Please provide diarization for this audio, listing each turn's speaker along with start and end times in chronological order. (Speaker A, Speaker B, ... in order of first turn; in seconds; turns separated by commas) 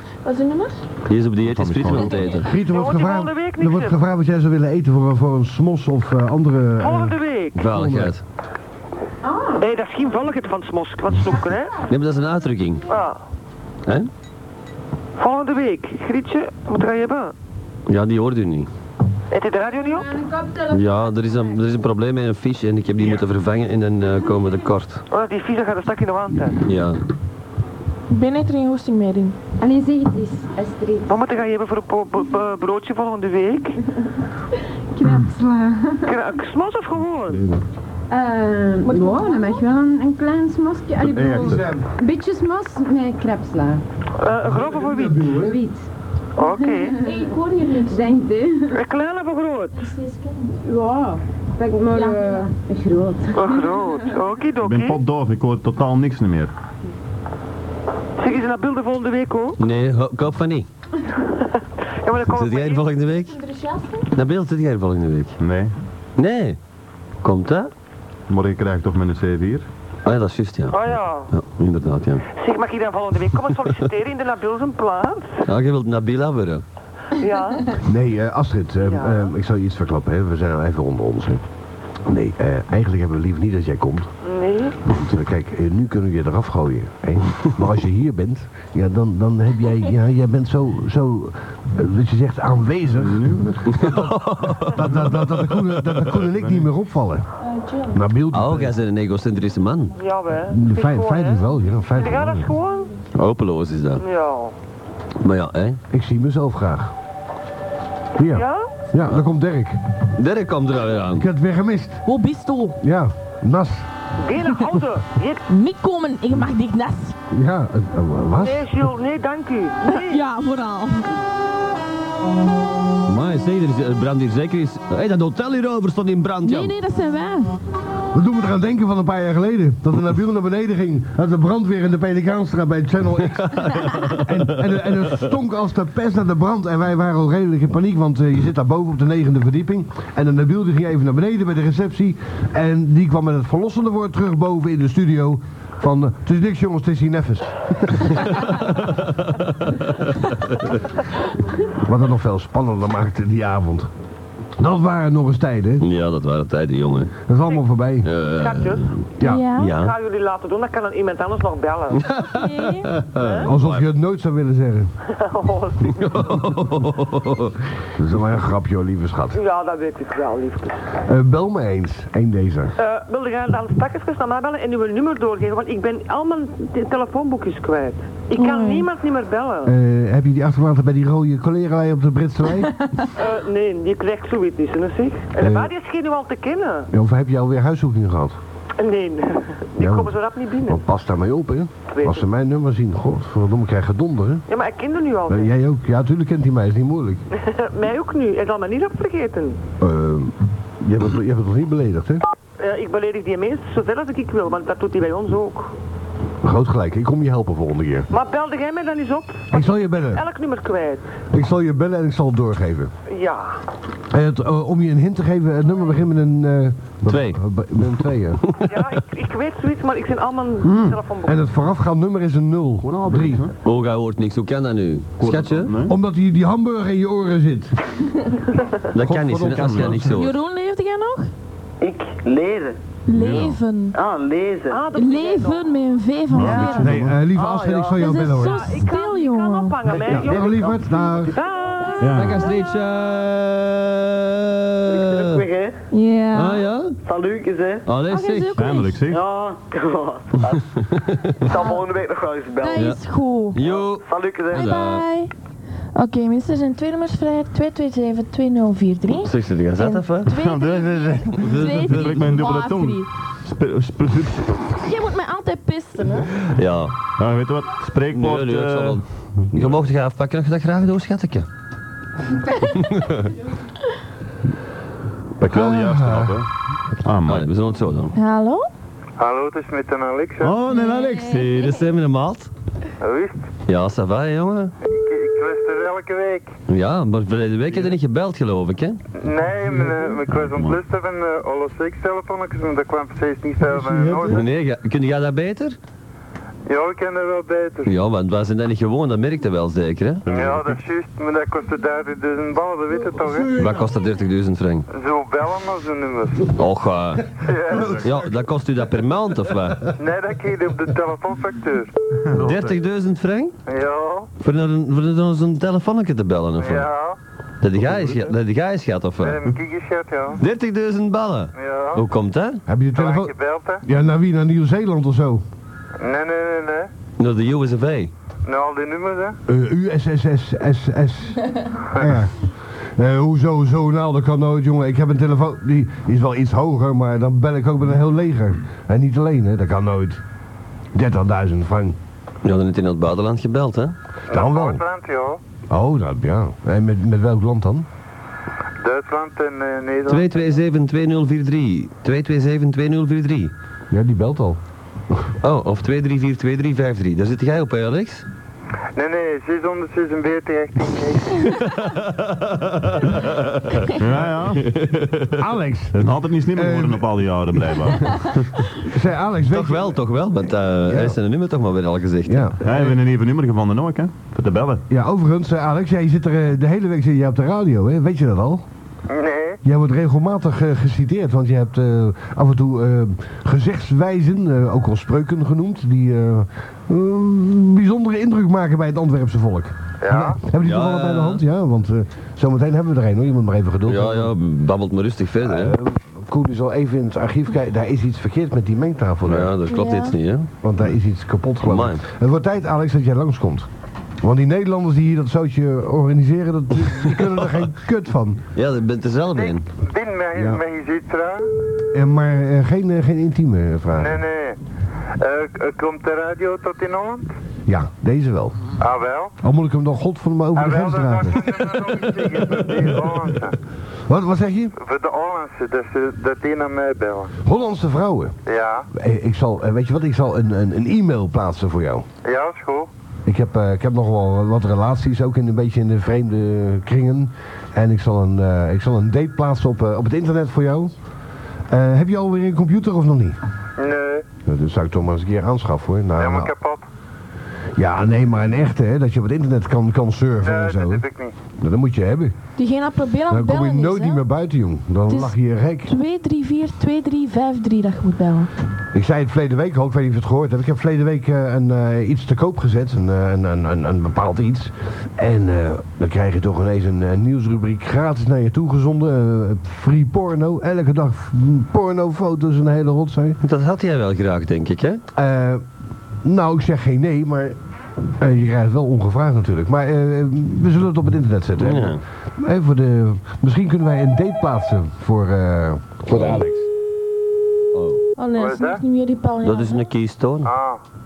Speaker A: 0.2-0.8, Speaker B: 1.1-2.5, Speaker C: 1.4-2.4, Speaker D: 2.4-8.1, Speaker E: 2.6-4.0, Speaker E: 6.8-7.6, Speaker B: 7.6-8.2, Speaker F: 9.3-9.6, Speaker E: 9.6-11.8, Speaker B: 11.9-12.8, Speaker E: 12.9-13.2, Speaker E: 15.2-17.4, Speaker B: 17.9-18.7, Speaker E: 19.3-20.1, Speaker F: 19.7-21.6, Speaker B: 20.7-25.0, Speaker E: 25.1-26.6, Speaker B: 26.6-27.0, Speaker A: 28.1-29.4, Speaker F: 29.6-31.1, Speaker E: 31.1-33.8, Speaker F: 35.0-36.2, Speaker E: 36.1-37.4, Speaker C: 37.3-37.6, Speaker F: 38.1-43.8, Speaker A: 38.9-39.6, Speaker D: 41.0-41.9, Speaker C: 41.1-41.6, Speaker E: 44.2-45.3, Speaker D: 44.6-45.6, Speaker F: 45.3-45.9, Speaker E: 46.4-47.0, Speaker F: 46.5-47.3, Speaker A: 47.0-48.1, Speaker F: 47.8-48.8, Speaker E: 48.7-49.9, Speaker A: 49.7-50.5, Speaker F: 50.6-53.8, Speaker A: 51.9-52.5, Speaker E: 53.3-55.0, Speaker C: 54.6-56.5, Speaker E: 58.2-59.6, Speaker B: 59.6-60.7, Speaker E: 61.2-62.9, Speaker B: 62.2-63.4, Speaker A: 63.2-64.1, Speaker B: 64.1-65.4, Speaker C: 65.4-65.7, Speaker B: 66.2-66.6, Speaker B: 67.2-67.7, Speaker C: 68.3-69.7, Speaker B: 70.0-72.2, Speaker E: 70.7-71.3, Speaker E: 72.4-75.5, Speaker B: 75.5-76.6, Speaker E: 77.2-77.8, Speaker D: 77.8-81.4, Speaker E: 78.9-79.2, Speaker D: 82.1-84.1, Speaker E: 84.2-84.8, Speaker D: 84.9-97.3, Speaker C: 93.0-93.5, Speaker B: 93.7-94.8, Speaker C: 94.9-95.3, Speaker C: 95.9-96.6, Speaker A: 97.4-98.0, Speaker D: 97.9-98.7, Speaker B: 98.3-99.9, Speaker E: 100.0-102.9, Speaker D: 100.5-102.5, Speaker B: 103.1-104.0, Speaker E: 104.0-104.5, Speaker B: 105.2-105.8, Speaker D: 105.9-106.9, Speaker D: 108.2-109.8, Speaker E: 108.3-108.7, Speaker B: 110.2-111.3, Speaker D: 111.2-112.0, Speaker A: 112.1-112.8, Speaker D: 112.8-113.9, Speaker E: 114.2-115.4, Speaker A: 115.5-117.2, Speaker D: 117.3-118.8, Speaker E: 118.4-120.2, Speaker A: 119.9-121.2, Speaker B: 123.1-126.7, Speaker A: 126.4-127.6, Speaker D: 128.1-133.6, Speaker B: 133.4-134.3, Speaker D: 134.2-148.7, Speaker B: 148.2-150.6, Speaker D: 151.8-153.9, Speaker D: 154.6-155.9, Speaker B: 155.8-157.2, Speaker D: 157.3-158.1, Speaker B: 158.1-159.0, Speaker E: 158.3-158.9, Speaker D: 159.2-159.5, Speaker A: 159.2-159.7, Speaker B: 159.6-159.9, Speaker E: 159.7-162.1, Speaker B: 161.9-163.9, Speaker A: 162.2-162.9, Speaker E: 163.2-163.5, Speaker D: 163.4-164.9, Speaker E: 165.1-166.5, Speaker B: 166.0-167.6, Speaker D: 168.0-169.4, Speaker E: 169.3-170.8, Speaker D: 171.0-172.7, Speaker E: 172.8-179.7, Speaker A: 178.3-178.9, Speaker D: 179.7-182.8, Speaker E: 183.1-186.9, Speaker D: 185.4-185.7, Speaker D: 186.9-188.4, Speaker E: 188.8-190.8, Speaker D: 189.8-190.1, Speaker D: 190.7-194.4, Speaker E: 191.9-192.2, Speaker E: 194.5-195.5, Speaker D: 195.3-197.2, Speaker E: 197.3-199.6, Speaker D: 199.8-202.2, Speaker E: 202.6-205.8, Speaker D: 206.4-208.1, Speaker E: 208.1-211.0, Speaker D: 209.5-210.2, Speaker D: 211.3-212.9, Speaker E: 213.1-213.6, Speaker D: 214.1-218.5, Speaker B: 217.1-217.4, Speaker B: 218.4-218.7, Speaker E: 218.7-221.4, Speaker C: 220.6-221.0, Speaker D: 221.3-223.5, Speaker C: 222.8-223.5, Speaker B: 223.6-225.7, Speaker C: 225.2-225.9, Speaker D: 225.9-227.8, Speaker B: 228.9-230.3, Speaker D: 229.0-230.1, Speaker C: 229.5-230.2, Speaker A: 230.1-231.3, Speaker G: 231.8-232.8, Speaker A: 233.1-234.0, Speaker C: 233.1-233.6, Speaker G: 233.9-234.8, Speaker E: 234.7-235.7, Speaker A: 234.9-236.9, Speaker C: 236.3-237.3, Speaker D: 236.5-238.8, Speaker E: 237.3-242.2, Speaker A: 238.0-239.8, Speaker D: 240.0-241.4, Speaker A: 241.8-242.7, Speaker C: 242.0-242.4, Speaker B: 242.1-245.4, Speaker G: 244.9-245.8, Speaker A: 245.9-246.7, Speaker B: 246.3-247.0, Speaker G: 247.0-247.9, Speaker B: 247.8-248.6, Speaker A: 248.1-249.0, Speaker C: 248.6-249.2, Speaker G: 249.1-250.7, Speaker B: 250.8-251.4, Speaker G: 251.4-252.9, Speaker A: 252.6-253.6, Speaker B: 253.5-255.1, Speaker G: 253.6-254.7, Speaker A: 254.5-255.3, Speaker A: 255.9-263.1, Speaker B: 259.2-260.4, Speaker C: 260.3-264.8, Speaker B: 261.4-262.3, Speaker A: 264.8-266.3, Speaker B: 266.5-266.9, Speaker C: 267.2-269.0, Speaker B: 268.1-271.5, Speaker B: 272.8-273.3, Speaker C: 275.4-276.5, Speaker D: 275.4-276.4, Speaker C: 277.0-277.5, Speaker B: 277.3-278.1, Speaker A: 278.1-278.7, Speaker H: 279.2-280.6, Speaker C: 280.4-281.7, Speaker A: 280.7-281.5, Speaker B: 281.4-282.5, Speaker H: 283.0-283.4, Speaker B: 283.7-284.7, Speaker H: 284.8-286.5, Speaker B: 286.7-289.0, Speaker H: 289.2-294.4, Speaker C: 290.3-290.8, Speaker D: 293.7-294.4, Speaker B: 294.3-295.8, Speaker H: 296.7-297.9, Speaker B: 297.9-300.3, Speaker C: 300.3-300.8, Speaker H: 300.3-303.5, Speaker D: 303.2-303.9, Speaker B: 303.6-304.9, Speaker H: 304.9-306.5, Speaker B: 306.5-307.4, Speaker H: 307.4-308.0, Speaker D: 307.7-308.3, Speaker C: 307.8-308.1, Speaker B: 308.0-309.9, Speaker H: 310.0-311.9, Speaker C: 312.3-312.7, Speaker B: 312.4-313.5, Speaker H: 313.7-314.3, Speaker B: 314.4-316.9, Speaker H: 316.6-317.2, Speaker B: 317.6-319.4, Speaker C: 317.8-318.3, Speaker H: 319.2-320.4, Speaker B: 320.4-322.6, Speaker H: 321.6-322.1, Speaker D: 322.7-323.3, Speaker H: 322.9-323.8, Speaker D: 323.9-325.4, Speaker H: 326.0-326.9, Speaker B: 327.2-328.1, Speaker H: 328.5-329.4, Speaker D: 329.5-340.2, Speaker D: 340.9-342.0, Speaker B: 342.4-343.9, Speaker H: 344.3-345.4, Speaker D: 344.3-344.8, Speaker D: 345.7-347.9, Speaker H: 348.8-350.5, Speaker B: 350.1-353.5, Speaker D: 353.9-354.6, Speaker B: 355.4-358.3, Speaker H: 359.0-361.6, Speaker B: 361.4-364.0, Speaker C: 363.9-364.7, Speaker B: 364.5-365.4, Speaker D: 365.4-367.3, Speaker C: 365.9-368.7, Speaker D: 368.8-370.0, Speaker B: 369.5-372.6, Speaker D: 370.9-371.2, Speaker D: 372.3-373.0, Speaker C: 372.6-374.8, Speaker D: 374.9-378.6, Speaker H: 379.1-379.6, Speaker D: 379.6-394.3, Speaker H: 390.0-390.4, Speaker B: 390.6-391.4, Speaker B: 393.9-395.8, Speaker D: 395.4-399.5, Speaker B: 399.3-400.5, Speaker A: 399.7-400.1, Speaker D: 400.6-403.7, Speaker B: 401.6-402.0, Speaker D: 404.2-408.4, Speaker B: 408.6-409.7, Speaker H: 409.4-411.5, Speaker D: 410.4-410.6, Speaker D: 411.9-414.2, Speaker H: 413.9-414.6, Speaker H: 415.2-417.3, Speaker D: 417.7-418.6, Speaker H: 418.8-419.4, Speaker D: 419.4-421.6, Speaker H: 420.6-423.6, Speaker D: 424.1-424.8, Speaker H: 424.8-427.3, Speaker D: 427.4-428.4, Speaker H: 428.5-428.9, Speaker D: 428.9-432.1, Speaker H: 432.2-432.9, Speaker D: 433.3-440.9, Speaker D: 441.7-443.4, Speaker H: 443.8-444.3, Speaker D: 444.4-446.5, Speaker H: 446.2-446.8, Speaker D: 447.8-451.0, Speaker H: 450.4-451.4, Speaker D: 451.6-452.4, Speaker A: 452.6-454.2, Speaker D: 453.3-455.9, Speaker A: 455.1-458.5, Speaker D: 458.9-473.4, Speaker B: 473.4-475.0, Speaker D: 475.1-475.6, Speaker D: 476.2-477.6, Speaker D: 478.2-486.6, Speaker B: 481.6-482.0, Speaker B: 486.1-486.4, Speaker B: 487.7-488.0, Speaker A: 488.2-489.8, Speaker H: 488.4-488.8, Speaker B: 489.4-490.5, Speaker H: 490.4-490.8